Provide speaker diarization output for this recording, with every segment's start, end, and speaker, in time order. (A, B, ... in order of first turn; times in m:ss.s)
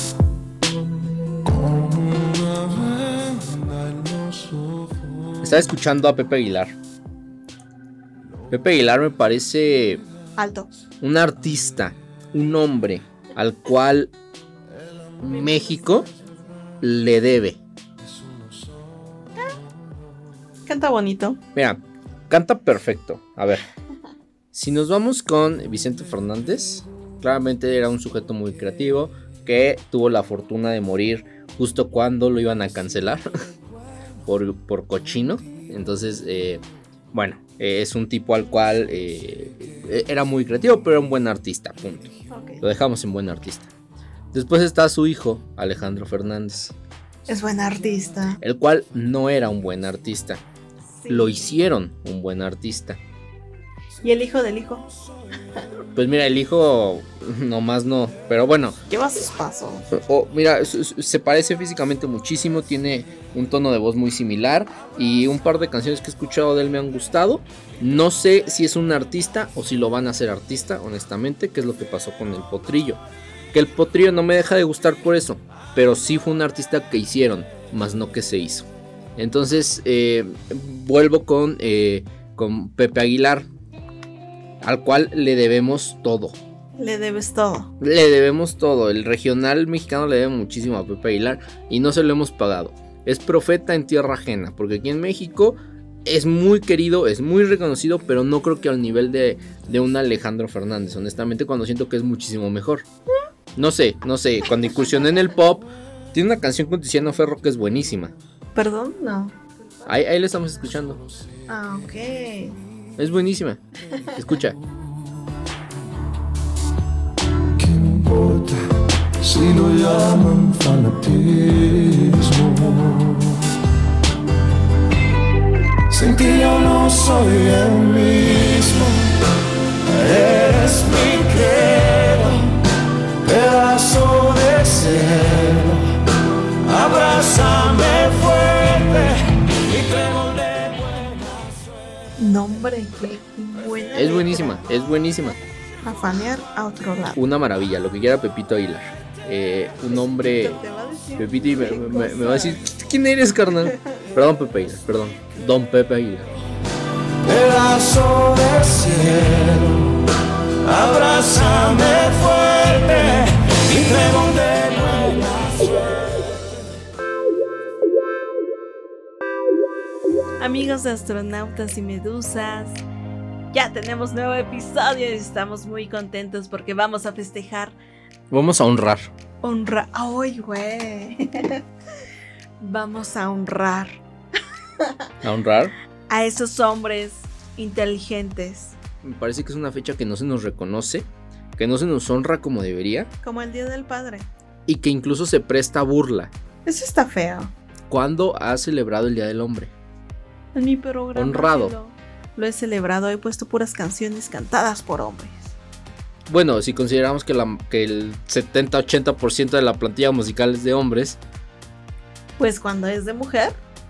0:01.5-0:04.6 A
0:05.4-0:06.8 B
0:08.5-0:10.0 B
0:10.4-0:10.7 C
0:11.0-0:14.1 B
0:15.2-0:16.1 B
0:16.8-0:17.6 B
0:20.6-0:21.4 C
0:21.5-0:23.6 B
0:24.5-0:33.2 B
0:34.2-0:42.1 B
0:42.3-0:42.6 C
0:42.6-0:43.7 B
0:44.3-0:46.8 B
0:47.3-0:48.4 C
0:48.4-0:50.4 B
0:50.9-0:51.5 C
0:51.1-0:53.0 B
0:54.0-0:54.9 C
0:55.9-0:58.8 B
0:58.9-0:59.9 C
0:59.9-1:13.0 B
1:13.5-1:23.5 B
1:24.6-1:26.4 B
1:26.8-1:27.7 C
1:27.8-1:42.8 B
1:43.6-1:48.1 B
1:48.5-1:49.8 C
1:49.8-1:51.0 B
1:51.5-1:52.6 C
1:53.0-1:53.6 B
1:54.1-1:54.6 B
1:57.7-1:58.5 A
1:59.2-2:03.2 A
2:05.9-2:09.0 A
2:10.0-2:12.5 A
2:13.3-2:15.8 A
2:16.7-2:19.2 A
2:22.2-2:24.6 C
2:23.9-2:25.4 B
2:25.8-2:27.2 C
2:27.1-2:30.6 B
2:29.9-2:32.6 C
2:31.2-2:36.4 B
2:37.4-2:39.6 A
2:41.4-2:43.0 C
2:44.1-2:45.5 C
2:50.4-2:52.8 C
2:53.5-2:57.7 C
2:58.3-2:59.1 B
2:59.4-3:01.6 C
3:02.6-3:04.0 C
3:05.2-3:05.7 B
3:06.1-3:08.8 C
3:09.0-3:13.1 B
3:13.2-3:14.3 C
3:14.7-3:16.3 B
3:16.6-3:17.5 C
3:17.9-3:19.7 B
3:20.5-3:25.5 C
3:21.1-3:21.7 B
3:26.3-3:31.2 B
3:32.4-3:33.6 C